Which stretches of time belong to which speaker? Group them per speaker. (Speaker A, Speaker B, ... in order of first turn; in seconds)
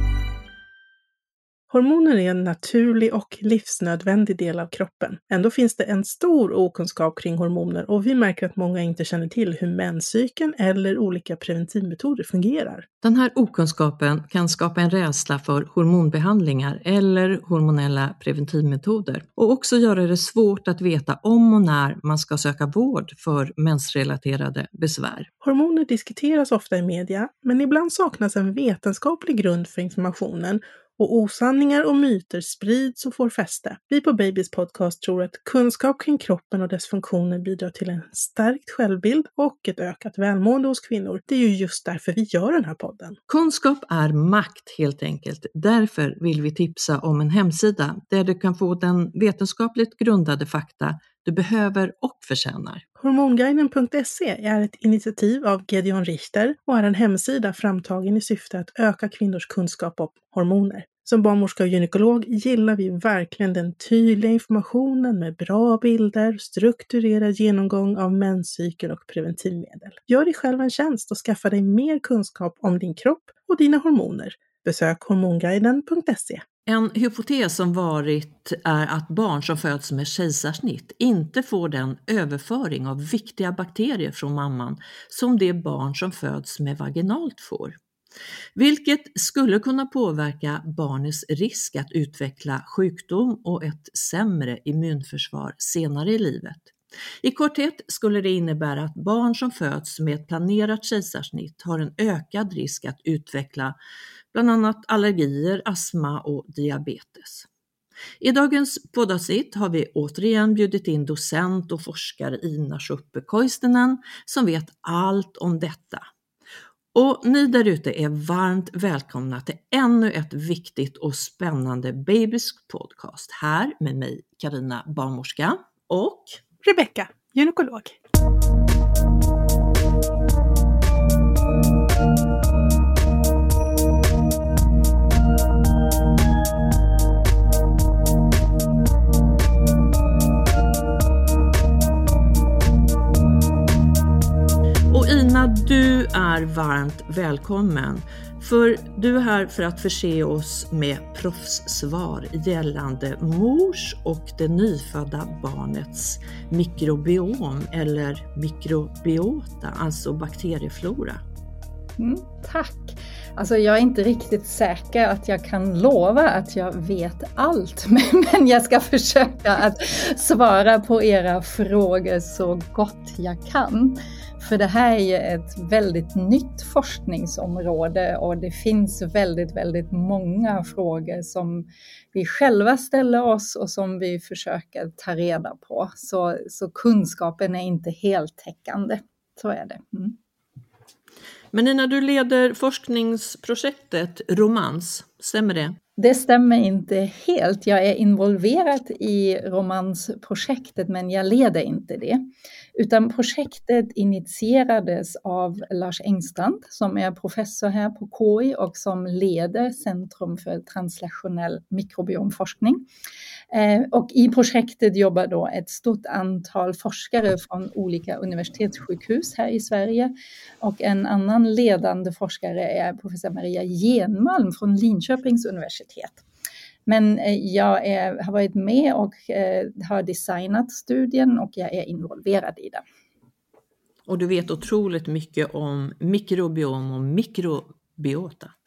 Speaker A: 1.7-12.9, 25.4-43.2, 53.0-76.4, 126.6-128.0
Speaker B: 13.0-25.3, 43.3-52.8, 76.7-87.8, 88.6-103.8, 104.3-107.5, 108.2-116.1, 116.9-126.4, 144.9-161.2, 191.5-195.8, 234.1-238.5
Speaker C: 162.0-190.2, 196.0-202.2, 202.8-212.8, 213.5-226.2, 226.9-232.8